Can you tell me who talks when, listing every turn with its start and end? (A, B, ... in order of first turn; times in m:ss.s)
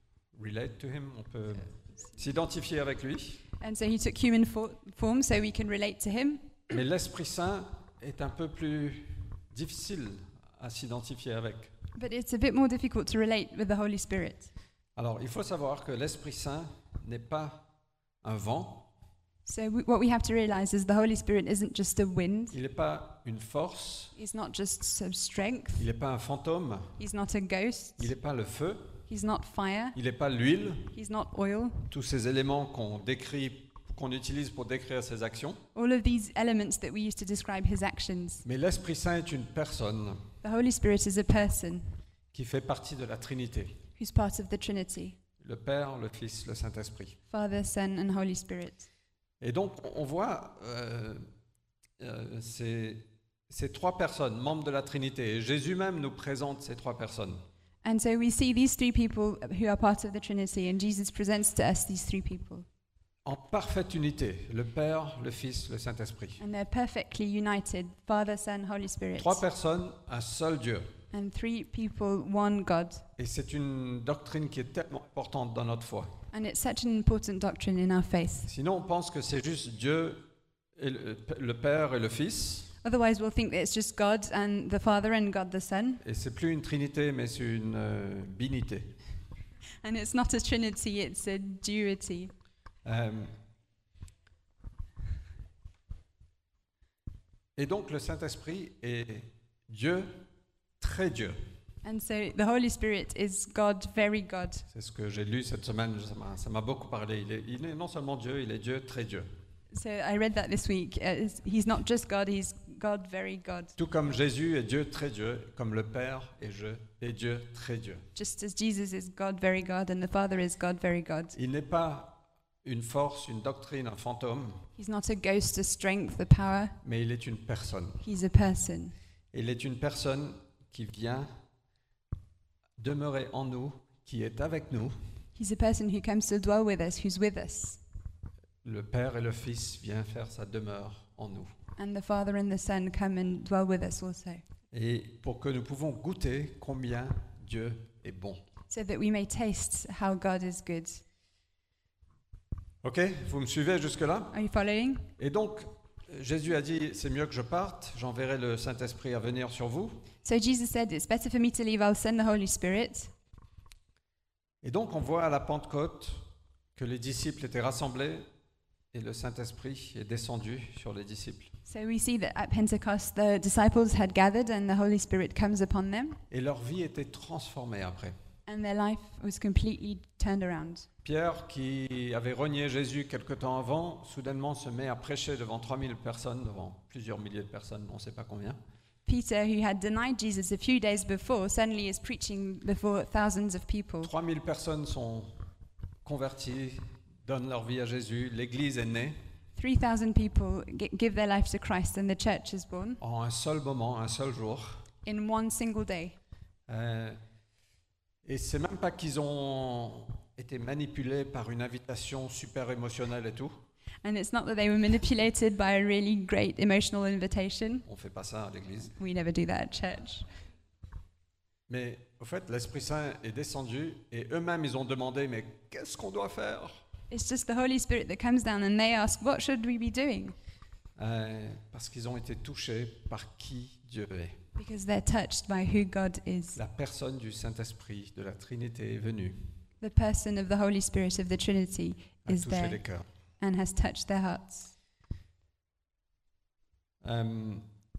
0:00.3-0:03.4 A
0:03.6-0:06.6 B
0:06.7-0:11.7 A
0:11.9-0:14.5 B
0:15.0-0:17.7 A
0:18.2-0:18.9 A
0:19.4-0:22.6 B
0:22.5-0:24.1 A
0:24.1-0:25.9 B
0:25.8-0:27.0 A
0:27.0-0:28.1 B
0:28.0-0:29.0 A
0:29.1-0:30.0 B
0:29.9-0:30.9 A
0:30.9-0:31.9 B
0:31.9-0:35.6 A
0:35.7-0:38.4 B
0:38.4-0:40.3 A
0:40.4-0:42.0 B
0:42.3-0:43.8 A
0:44.0-0:45.2 B
0:45.4-0:47.2 A
0:47.3-0:48.9 B
0:49.4-0:51.3 A
0:52.0-0:57.4 A
0:57.8-1:02.6 B
1:03.2-1:06.4 A
1:06.4-1:09.4 B
1:09.2-1:10.9 A
1:11.1-1:13.0 B
1:13.2-1:16.1 A
1:16.3-1:18.5 B
1:18.4-1:22.8 A
1:22.8-1:26.0 B
1:26.0-1:28.9 A
1:29.8-1:32.3 B
1:32.8-1:33.3 A
1:37.6-1:40.2 A
1:40.8-1:41.4 A
1:41.8-1:44.6 B
1:44.7-1:49.3 A
1:49.7-1:53.7 B
1:53.8-1:58.0 A
1:58.1-2:01.4 B
2:01.3-2:04.6 A
2:04.8-2:06.8 B
2:06.8-2:08.0 A
2:08.0-2:08.9 B
2:09.3-2:11.3 A
2:12.8-2:15.0 A
2:15.4-2:17.8 B
2:18.6-2:21.5 A
2:21.8-2:24.4 B
2:24.7-2:28.4 A
2:28.7-2:31.0 B
2:32.8-2:34.3 A
2:34.3-2:35.1 B
2:35.2-2:40.0 A
2:40.2-2:43.1 B
2:44.6-2:48.2 A
2:48.9-2:51.5 A
2:51.6-2:56.2 B
2:56.3-2:58.2 A
2:58.4-3:00.9 B
3:01.0-3:08.6 A
3:09.0-3:14.1 B
3:14.0-3:15.4 A
3:16.0-3:19.2 A
3:19.5-3:23.0 B
3:23.0-3:24.8 A
3:25.0-3:26.2 B
3:26.7-3:27.2 A
3:28.2-3:33.6 A
3:34.0-3:37.8 B
3:37.8-3:38.9 A
3:38.9-3:40.3 B
3:41.7-3:46.8 A
3:47.1-3:50.3 B
3:51.0-3:54.4 A
3:54.6-3:56.6 B
3:56.5-3:59.5 A
3:59.8-4:02.8 B
4:02.2-4:03.0 A
4:03.4-4:04.7 B
4:07.0-4:07.6 A